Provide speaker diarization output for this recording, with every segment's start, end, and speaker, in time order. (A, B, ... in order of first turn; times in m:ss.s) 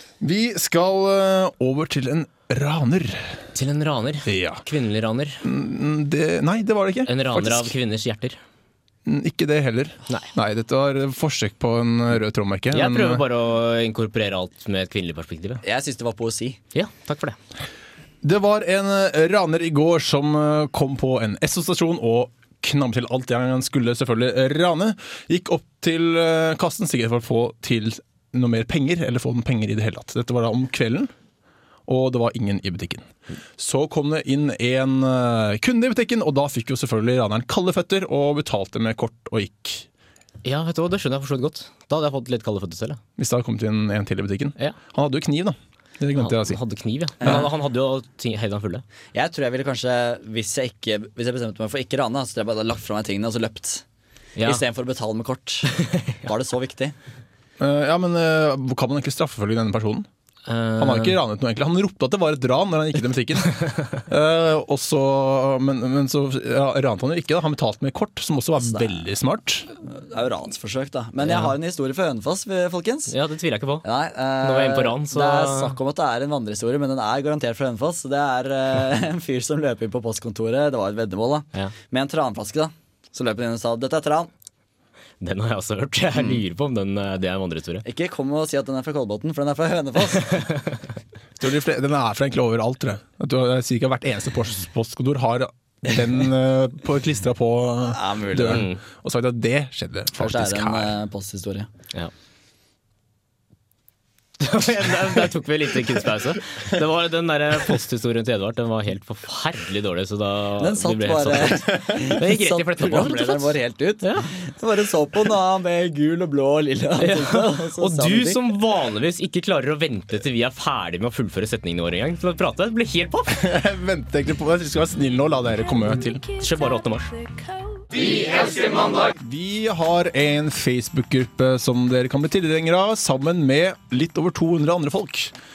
0:00.2-0:03.4 A
0:03.5-0:05.4 B
0:04.3-0:04.6 A
0:05.4-0:07.7 A
0:07.1-0:08.4 B
0:09.0-0:13.2 A
0:12.7-0:15.6 B
0:15.6-0:16.6 C
0:16.7-0:17.4 B
0:18.2-0:31.1 A
0:31.9-0:33.1 A
0:33.6-0:39.9 A
0:40.4-0:43.0 B
0:43.2-0:46.6 A
0:46.2-0:48.8 B
0:47.2-0:47.5 C
0:49.1-0:53.8 C
0:54.4-0:54.6 B
0:54.4-0:57.0 C
0:55.8-0:56.1 B
0:57.6-1:00.1 A
1:00.5-1:01.2 B
1:00.8-1:09.7 A
1:09.9-1:13.1 C
1:11.2-1:11.5 B
1:13.1-1:13.9 B
1:13.8-1:24.3 C
1:14.4-1:15.8 B
1:25.2-1:27.9 B
1:27.9-1:30.5 C
1:30.3-1:30.8 B
1:31.4-1:41.0 A
1:37.9-1:38.7 C
1:38.5-1:38.8 B
1:40.2-1:41.7 C
1:44.4-1:54.3 B
1:50.6-1:58.4 C
1:57.0-2:03.4 B
2:03.3-2:06.3 A
2:06.3-2:07.2 B
2:08.0-2:15.3 A